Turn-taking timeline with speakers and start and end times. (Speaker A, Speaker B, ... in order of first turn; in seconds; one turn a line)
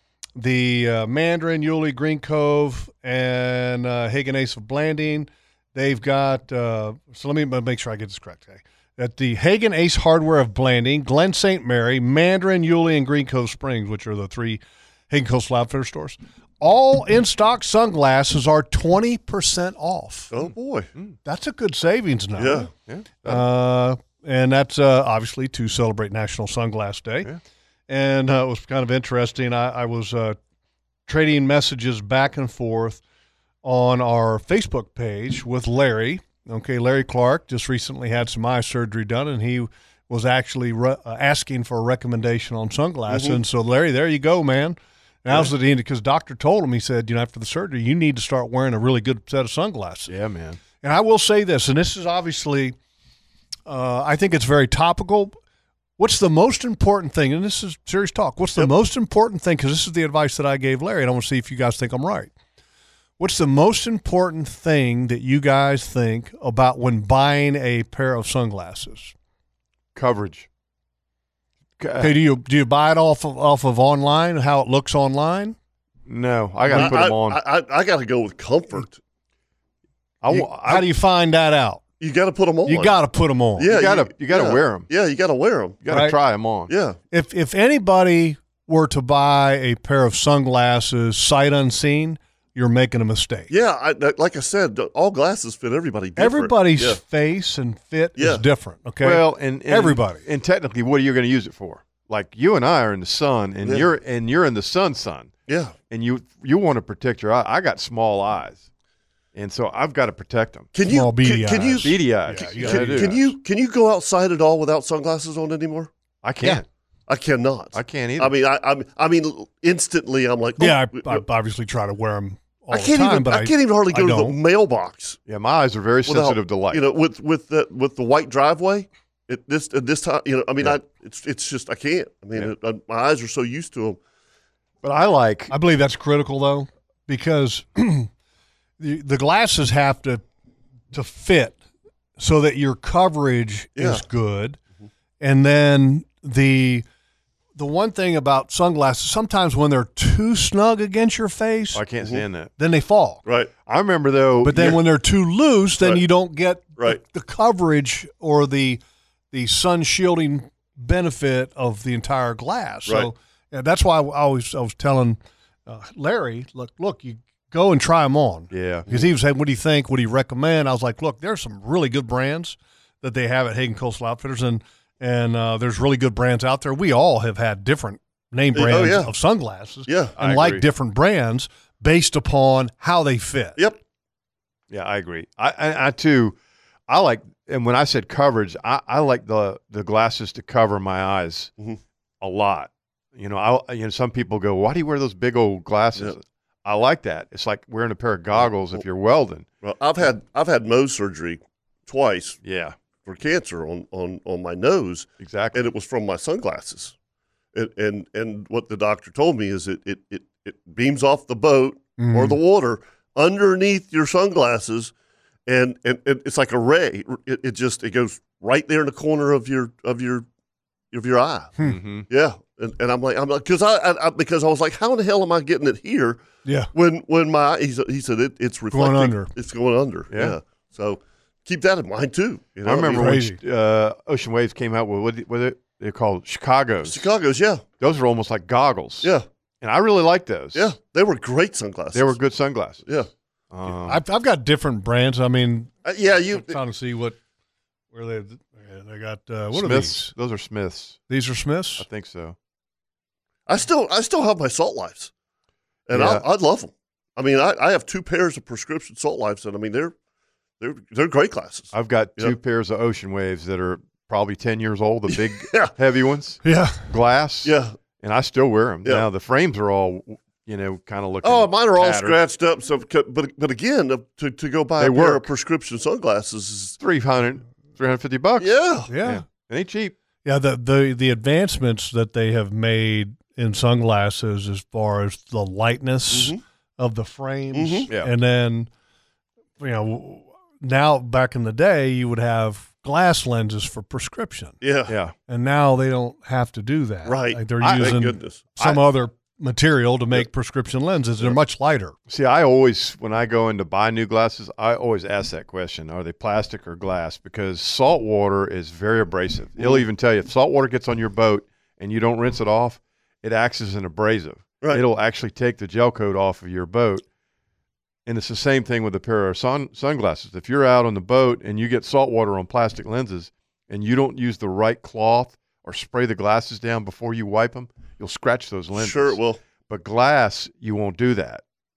Speaker A: 0.4-20.3
Speaker B: 20.3-20.9
Speaker C: 20.4-21.2
Speaker A: 21.2-22.7
Speaker B: 22.4-22.7
Speaker C: 22.9-23.5
Speaker A: 23.2-27.3
Speaker A: 27.9-30.4
Speaker A: 31.1-33.0
Speaker A: 33.6-50.1
Speaker B: 43.1-43.4
Speaker C: 50.1-50.6
Speaker A: 50.8-52.8
Speaker A: 53.7-55.4
Speaker A: 56.0-62.3
Speaker A: 63.2-69.1
Speaker C: 70.0-70.5
Speaker C: 71.8-72.2
Speaker A: 72.0-75.6
Speaker C: 76.1-77.4
Speaker A: 76.7-77.0
Speaker B: 76.7-79.0
Speaker C: 80.2-80.9
Speaker A: 80.3-81.8
Speaker B: 82.0-83.0
Speaker A: 82.7-83.7
Speaker B: 83.6-85.8
Speaker C: 83.6-84.9
Speaker C: 85.8-86.7
Speaker A: 85.9-86.2
Speaker B: 86.7-87.0
Speaker A: 87.1-93.5
Speaker B: 93.5-97.0
Speaker A: 96.2-100.2
Speaker B: 98.2-98.4
Speaker C: 99.0-105.3
Speaker B: 103.6-103.9
Speaker B: 105.5-105.8
Speaker C: 105.9-108.7
Speaker C: 109.3-110.7
Speaker B: 110.7-112.0
Speaker A: 110.8-113.1
Speaker C: 111.8-113.3
Speaker B: 112.6-115.9
Speaker C: 116.2-116.7
Speaker B: 117.1-121.2
Speaker C: 117.7-118.3
Speaker A: 120.6-124.3
Speaker B: 122.7-125.2
Speaker C: 125.3-126.8
Speaker B: 126.1-134.0
Speaker C: 134.8-135.5
Speaker A: 135.5-138.1
Speaker A: 138.8-140.2
Speaker A: 140.9-141.6
Speaker A: 142.2-144.6
Speaker B: 143.8-144.0
Speaker A: 145.2-146.8
Speaker A: 147.6-151.8
Speaker C: 151.7-152.5
Speaker A: 152.6-153.2
Speaker B: 153.2-153.5
Speaker C: 153.7-154.7
Speaker A: 154.4-158.8
Speaker A: 159.3-183.6
Speaker C: 168.5-168.9
Speaker B: 178.6-179.1
Speaker B: 179.9-180.1
Speaker C: 180.2-180.6
Speaker C: 184.7-186.4
Speaker C: 186.9-191.5
Speaker C: 192.2-199.4
Speaker B: 198.4-198.8
Speaker B: 199.6-202.4
Speaker C: 202.4-202.7
Speaker B: 203.1-206.9
Speaker C: 205.2-205.6
Speaker B: 207.6-214.9
Speaker A: 212.0-212.4
Speaker B: 215.5-220.3
Speaker B: 220.9-226.2
Speaker C: 221.6-222.1
Speaker A: 226.4-226.7
Speaker B: 226.7-233.1
Speaker A: 228.7-229.3
Speaker C: 230.1-230.4
Speaker C: 232.6-237.1
Speaker A: 232.9-233.4
Speaker B: 236.8-237.6
Speaker C: 237.8-240.7
Speaker B: 240.6-242.2
Speaker C: 241.9-242.9
Speaker B: 242.8-243.1
Speaker C: 243.5-244.0
Speaker A: 243.9-247.2
Speaker B: 245.8-246.6
Speaker A: 247.9-250.1
Speaker C: 249.5-251.0
Speaker A: 251.1-251.8
Speaker C: 251.8-252.4
Speaker B: 253.5-255.1
Speaker B: 255.9-259.9
Speaker C: 255.9-256.2
Speaker B: 260.6-262.4
Speaker C: 261.7-272.2
Speaker B: 265.1-265.7
Speaker A: 266.4-266.8
Speaker B: 267.4-267.7
Speaker B: 271.2-276.8
Speaker C: 274.8-275.3
Speaker C: 276.8-279.9
Speaker B: 278.4-278.9
Speaker A: 278.9-279.2
Speaker A: 280.2-288.7
Speaker B: 286.1-286.4
Speaker B: 287.5-287.9
Speaker A: 289.6-294.6
Speaker B: 294.6-294.9
Speaker C: 294.9-295.1
Speaker A: 295.3-301.9
Speaker B: 297.1-298.8
Speaker C: 297.6-298.0
Speaker C: 302.1-317.0
Speaker B: 309.6-309.9
Speaker C: 318.1-331.4
Speaker B: 328.7-329.4